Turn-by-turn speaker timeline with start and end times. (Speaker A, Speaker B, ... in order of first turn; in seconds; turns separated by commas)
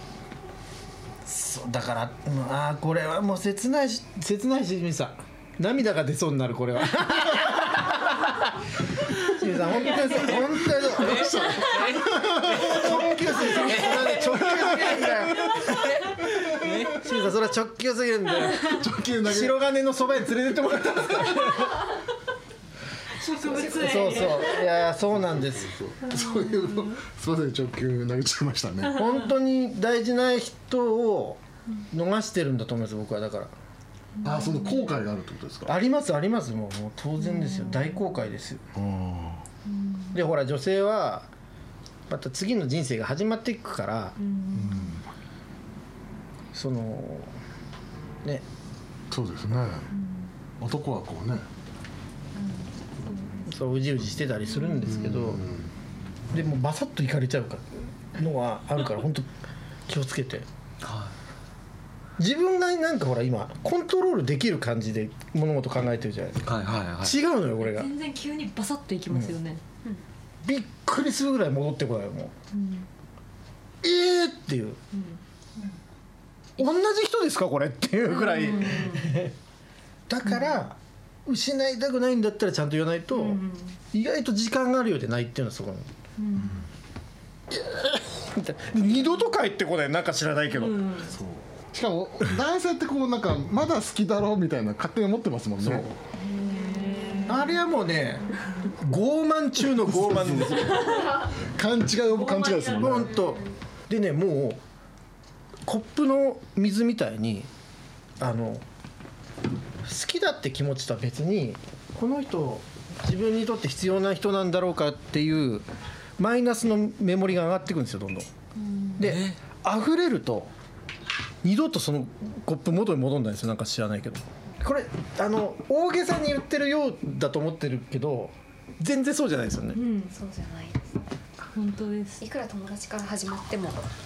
Speaker A: 1.2-11.8, Speaker B: 10.8-17.1, Speaker C: 10.9-15.2, Speaker A: 12.5-15.9, Speaker C: 16.6-16.9, Speaker A: 16.9-21.9, Speaker C: 18.6-19.6, Speaker D: 23.1-24.8, Speaker A: 23.5-25.8, Speaker C: 25.2-29.0, Speaker D: 26.0-27.0, Speaker A: 28.9-33.5, Speaker D: 34.2-35.0, Speaker C: 34.2-35.7, Speaker A: 35.6-38.6, Speaker D: 37.2-38.0, Speaker C: 38.7-39.4, Speaker D: 39.6-40.2, Speaker A: 40.1-41.3, Speaker A: 42.1-44.1, Speaker D: 44.2-44.9, Speaker C: 44.5-45.0, Speaker A: 46.5-47.3, Speaker C: 49.1-49.9, Speaker D: 49.9-50.3, Speaker C: 50.6-51.4, Speaker D: 53.0-53.5, Speaker A: 53.5-55.5, Speaker C: 54.9-55.7, Speaker A: 56.3-59.3, Speaker A: 59.9-60.5, Speaker B: 60.8-61.1, Speaker A: 62.2-67.9, Speaker B: 66.4-67.2, Speaker D: 67.6-69.6, Speaker A: 69.1-69.3, Speaker A: 70.4-72.3, Speaker D: 72.5-72.8, Speaker A: 73.8-74.8, Speaker D: 74.9-75.2, Speaker A: 76.6-79.3, Speaker D: 78.2-79.2, Speaker A: 80.1-85.9, Speaker D: 83.1-83.8, Speaker D: 86.2-86.5, Speaker C: 86.3-86.6, Speaker A: 87.5-90.9, Speaker D: 90.5-91.1, Speaker C: 91.0-96.0, Speaker A: 95.6-95.9, Speaker D: 96.2-97.6, Speaker A: 97.2-101.1, Speaker C: 99.8-103.3, Speaker D: 102.1-103.0, Speaker A: 102.7-104.6, Speaker A: 105.6-107.5, Speaker A: 108.2-108.6, Speaker A: 109.8-115.7, Speaker A: 116.2-118.3, Speaker A: 119.0-120.5, Speaker B: 119.0-119.4, Speaker A: 121.4-129.8, Speaker D: 129.8-130.1, Speaker E: 130.1-131.0, Speaker D: 131.5-132.2, Speaker E: 132.2-133.8